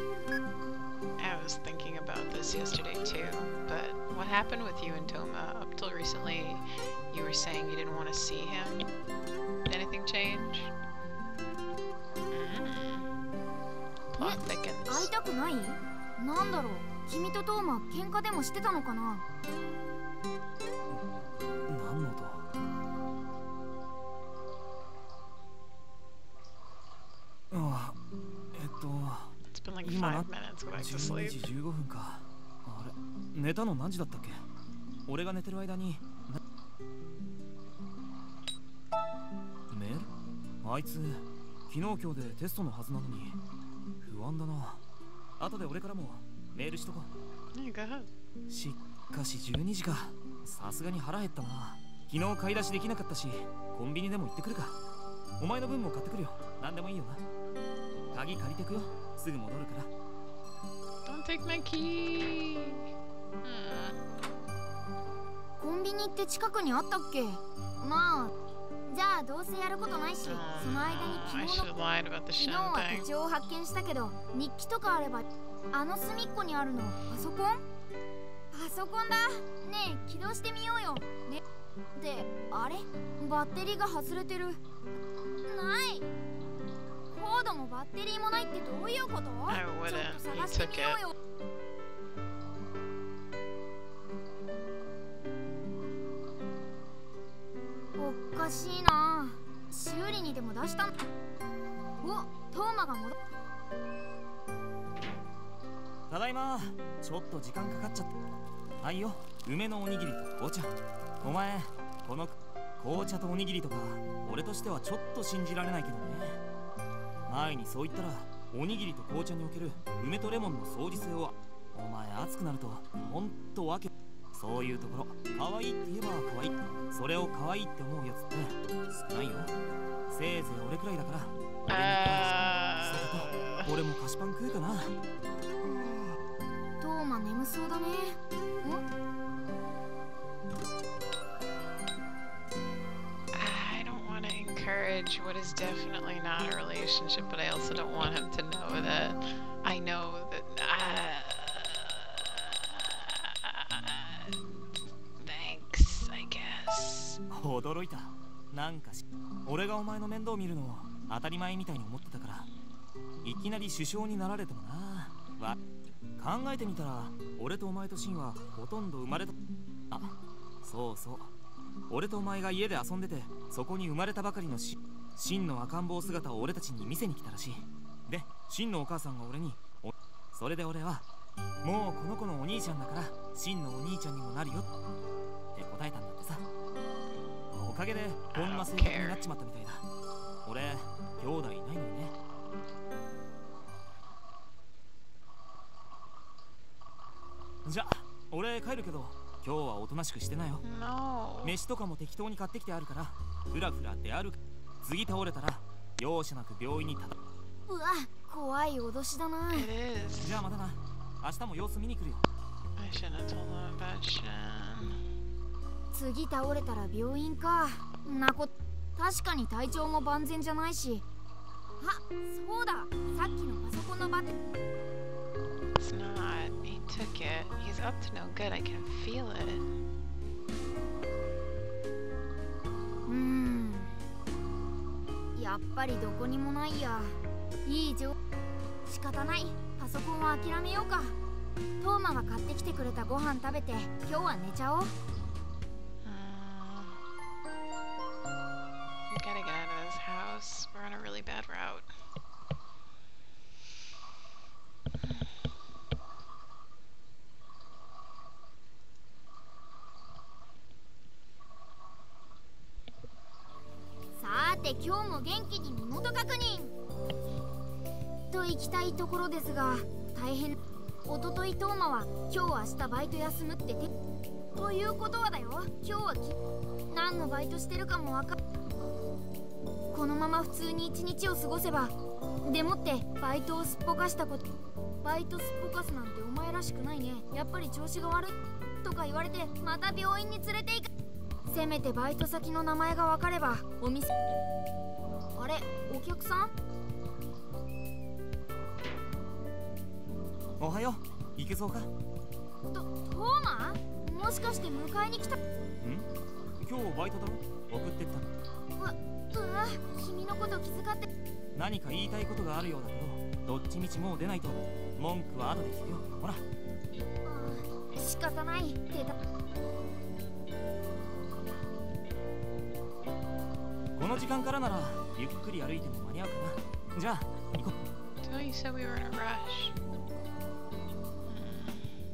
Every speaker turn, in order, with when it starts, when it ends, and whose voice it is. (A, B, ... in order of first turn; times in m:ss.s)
0:01.2-0:08.9 A
0:09.7-0:10.7 A
0:12.3-0:13.1 A
0:14.1-0:15.1 A
0:14.2-0:19.2 B
0:20.9-0:22.4 C
0:27.5-0:28.0 C
0:28.5-0:34.4 C
0:29.5-0:31.5 A
0:35.1-0:36.4 C
0:39.7-0:43.4 C
0:44.0-0:44.8 C
0:45.4-0:47.1 C
0:47.5-0:48.1 A
0:48.5-0:54.8 C
0:55.4-0:57.2 C
0:58.1-0:59.9 C
1:01.0-1:02.8 A
1:03.4-1:04.0 A
1:05.6-1:08.3 B
1:08.9-1:11.7 B
1:10.2-1:13.1 A
1:12.4-1:17.6 B
1:18.5-1:21.4 B
1:22.0-1:24.6 B
1:25.5-1:26.1 B
1:27.1-1:31.1 B
1:29.5-1:31.0 A
1:38.0-1:40.9 B
1:42.0-1:43.2 B
1:46.1-1:48.1 C
1:48.8-1:56.4 C
1:57.3-2:09.5 C
2:10.1-2:14.9 C
2:11.7-2:13.6 A
2:15.6-2:16.2 B
2:16.8-2:18.8 B
2:23.3-2:34.4 A
2:35.2-2:37.2 A
2:37.3-2:42.5 C
2:43.2-2:45.6 C
2:46.2-2:49.3 C
2:49.9-2:51.3 C
2:51.9-3:01.0 C
3:01.6-3:04.7 C
3:05.5-3:06.4 C
3:07.5-3:09.8 C
3:08.3-3:09.2 A
3:10.4-3:12.1 C
3:17.6-3:20.6 C
3:20.6-3:21.6 A
3:21.4-3:27.2 C
3:27.7-3:29.7 B
3:29.5-3:30.4 A
3:30.2-3:32.2 C
3:32.8-3:35.0 A
3:35.9-3:41.0 B
3:41.8-3:44.3 B
3:45.8-3:49.7 A
3:53.0-3:53.9 B
3:55.3-3:58.1 B
3:58.8-4:01.2 B
4:01.8-4:04.9 B
4:06.0-4:07.0 A
4:09.1-4:11.9 A
4:24.2-4:26.7 B
4:28.3-4:33.9 B
4:34.5-4:36.4 B
4:36.9-4:38.4 B
4:39.9-4:44.4 B
4:45.0-4:50.9 B
4:51.5-4:54.1 B
4:55.4-4:56.5 B
5:00.6-5:01.9 C
5:02.7-5:05.4 B
5:05.8-5:08.3 C
5:08.8-5:11.1 B
5:11.5-5:16.4 C
5:17.2-5:19.1 B
5:24.0-5:27.7 C
5:28.2-5:29.7 A
5:31.3-5:31.9 A